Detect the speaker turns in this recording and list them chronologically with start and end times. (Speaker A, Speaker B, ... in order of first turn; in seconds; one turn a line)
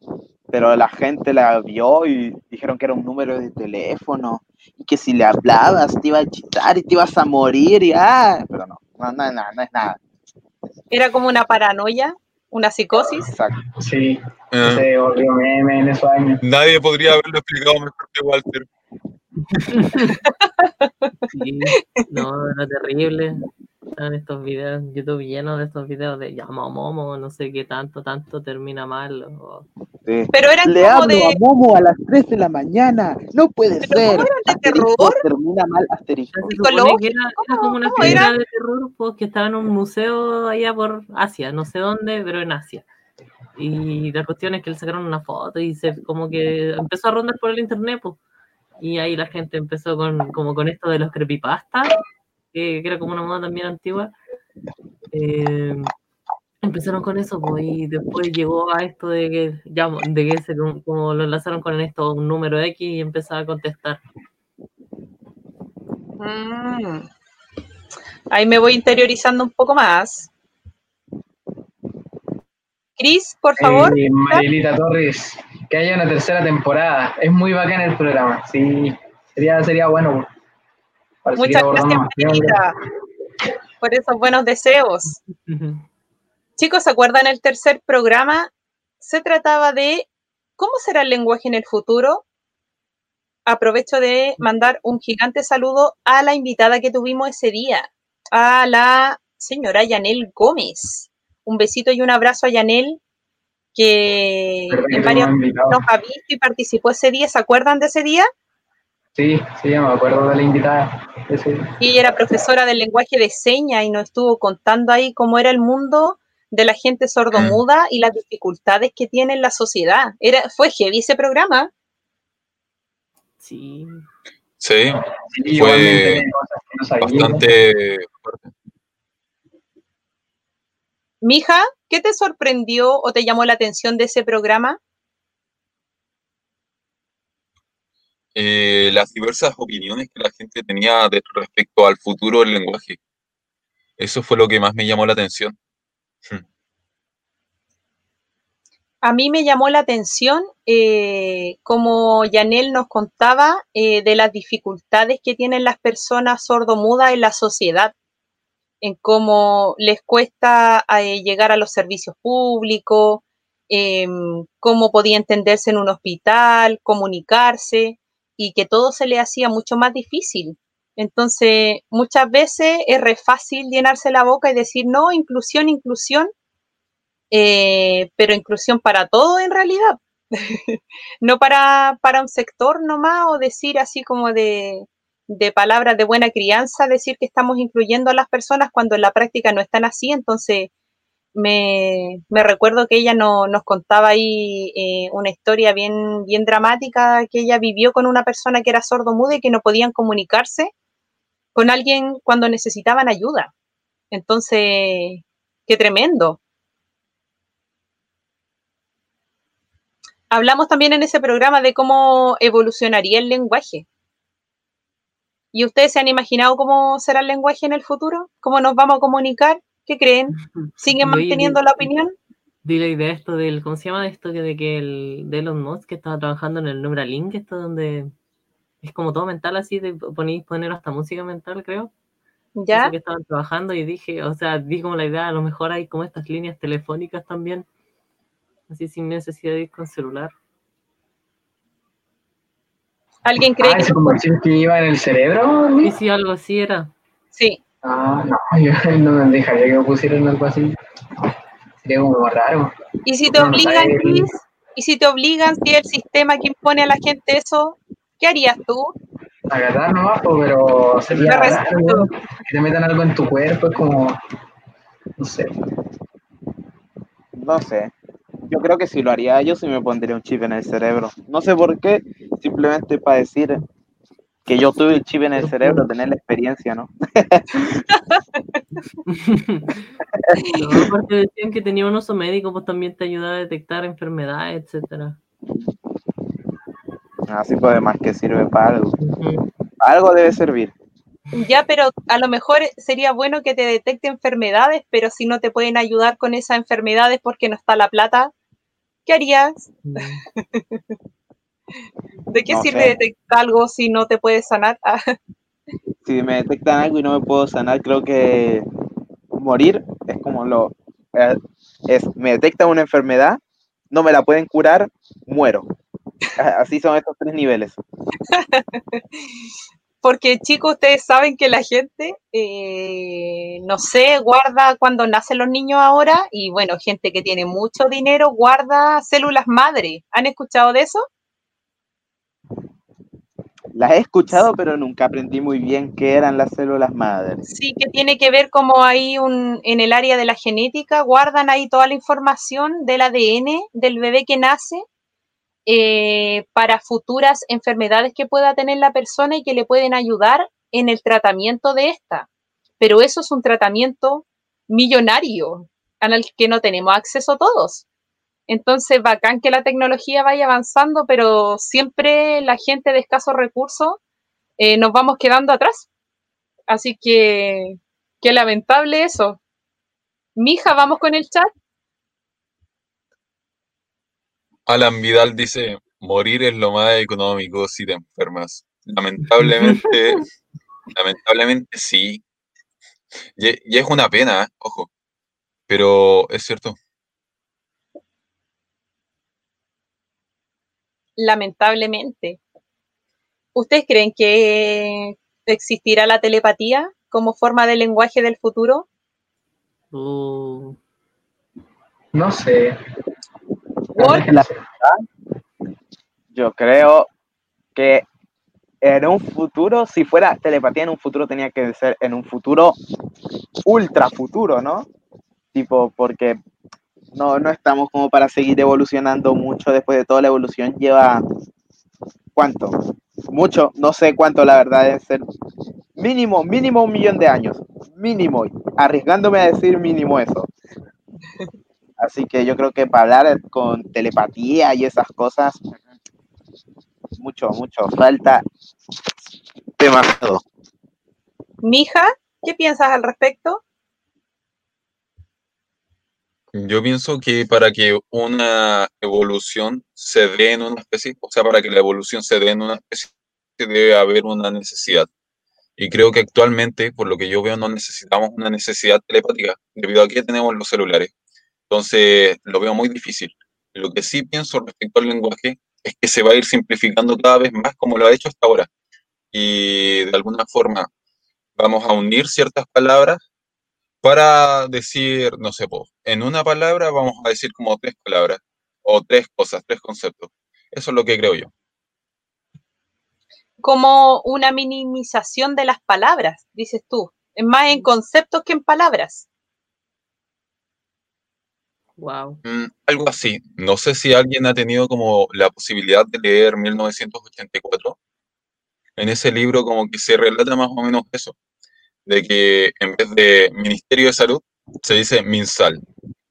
Speaker A: 0.5-10.0
Speaker B: 10.9-13.3
Speaker A: 13.1-13.6
Speaker C: 13.8-16.4
Speaker D: 14.5-14.9
Speaker D: 16.4-18.7
Speaker E: 19.7-20.1
Speaker B: 20.3-20.9
Speaker E: 21.3-29.7
Speaker B: 22.0-22.2
Speaker A: 30.1-36.5
Speaker B: 30.3-31.4
Speaker B: 33.8-35.2
Speaker E: 36.3-42.9
Speaker B: 36.6-38.3
Speaker A: 38.0-38.3
Speaker E: 43.6-48.2
Speaker E: 48.8-52.0
Speaker E: 52.5-54.1
Speaker E: 55.1-55.9
Speaker E: 56.6-64.0
Speaker B: 66.2-67.1
Speaker B: 68.3-70.3
Speaker B: 73.0-74.5
Speaker C: 73.6-80.3
Speaker C: 81.2-82.6
Speaker B: 81.4-82.8
Speaker B: 83.8-85.2
Speaker E: 85.3-85.8
Speaker B: 86.6-92.2
Speaker B: 93.5-103.0
Speaker B: 103.8-108.3
Speaker C: 104.7-105.8
Speaker C: 109.2-111.7
Speaker B: 111.8-121.7
Speaker D: 117.3-117.6
Speaker E: 123.4-124.1
Speaker D: 124.6-125.0
Speaker C: 125.3-127.5
Speaker D: 125.5-126.2
Speaker D: 127.0-128.5
Speaker B: 131.2-134.8
Speaker D: 138.3-143.0
Speaker D: 144.0-145.6
Speaker B: 149.0-157.9
Speaker B: 158.8-176.3
Speaker B: 177.3-190.7
Speaker B: 191.3-200.7
Speaker B: 201.6-203.5
Speaker B: 204.1-206.4
Speaker B: 210.3-213.9
Speaker B: 215.5-222.1
Speaker E: 220.4-221.9
Speaker E: 222.6-228.1
Speaker E: 228.8-231.9
Speaker B: 232.6-232.9
Speaker E: 232.7-237.7
Speaker E: 238.7-240.3
Speaker B: 243.2-244.2
Speaker C: 243.6-245.9
Speaker E: 245.8-246.9
Speaker B: 247.3-247.6
Speaker C: 247.8-250.8
Speaker C: 251.8-252.7
Speaker B: 253.1-258.9
Speaker C: 253.3-254.3
Speaker C: 259.5-264.2
Speaker B: 261.1-262.1
Speaker C: 265.2-265.5
Speaker A: 267.4-267.9
Speaker A: 268.5-273.6
Speaker A: 274.5-277.8
Speaker E: 275.4-275.9
Speaker E: 279.1-279.9
Speaker E: 280.6-285.2
Speaker A: 287.3-289.0
Speaker E: 289.0-289.5
Speaker A: 289.8-290.7
Speaker B: 291.3-298.3
Speaker B: 299.1-300.0
Speaker E: 299.9-300.2
Speaker B: 300.5-300.8
Speaker B: 302.3-305.1
Speaker A: 302.5-302.9
Speaker A: 306.1-308.7
Speaker A: 309.3-313.4
Speaker A: 313.9-315.7
Speaker A: 316.4-317.8
Speaker B: 318.3-319.0
Speaker B: 320.0-331.1
Speaker A: 333.7-337.4
Speaker B: 337.5-344.9
Speaker B: 345.7-352.3
Speaker B: 352.8-357.9
Speaker B: 358.5-364.0
Speaker B: 364.6-365.9
Speaker B: 366.7-369.4
Speaker B: 370.4-371.5
Speaker D: 374.7-380.3
Speaker D: 380.9-382.2
Speaker D: 383.4-384.9
Speaker D: 385.7-386.8
Speaker B: 391.2-392.4
Speaker B: 393.6-398.9
Speaker E: 399.9-400.8
Speaker C: 402.1-402.8
Speaker C: 404.0-404.6
Speaker B: 404.0-404.2
Speaker A: 404.0-405.0
Speaker A: 406.3-407.1
Speaker A: 407.8-408.1
Speaker A: 408.8-412.8
Speaker A: 413.7-414.9
Speaker A: 415.5-416.4
Speaker A: 417.1-421.2
Speaker A: 422.4-422.8
Speaker A: 423.3-425.3
Speaker A: 426.0-430.5
Speaker A: 432.0-435.8
Speaker A: 437.2-438.4
Speaker A: 439.8-440.4
Speaker B: 441.6-443.6
Speaker D: 446.5-455.1
Speaker D: 455.8-461.1
Speaker D: 461.7-468.7
Speaker D: 469.3-470.9
Speaker D: 471.6-473.2
Speaker D: 474.0-481.5
Speaker B: 483.6-489.3
Speaker E: 492.0-492.4
Speaker D: 492.4-498.0
Speaker D: 499.0-501.4
Speaker D: 502.1-505.8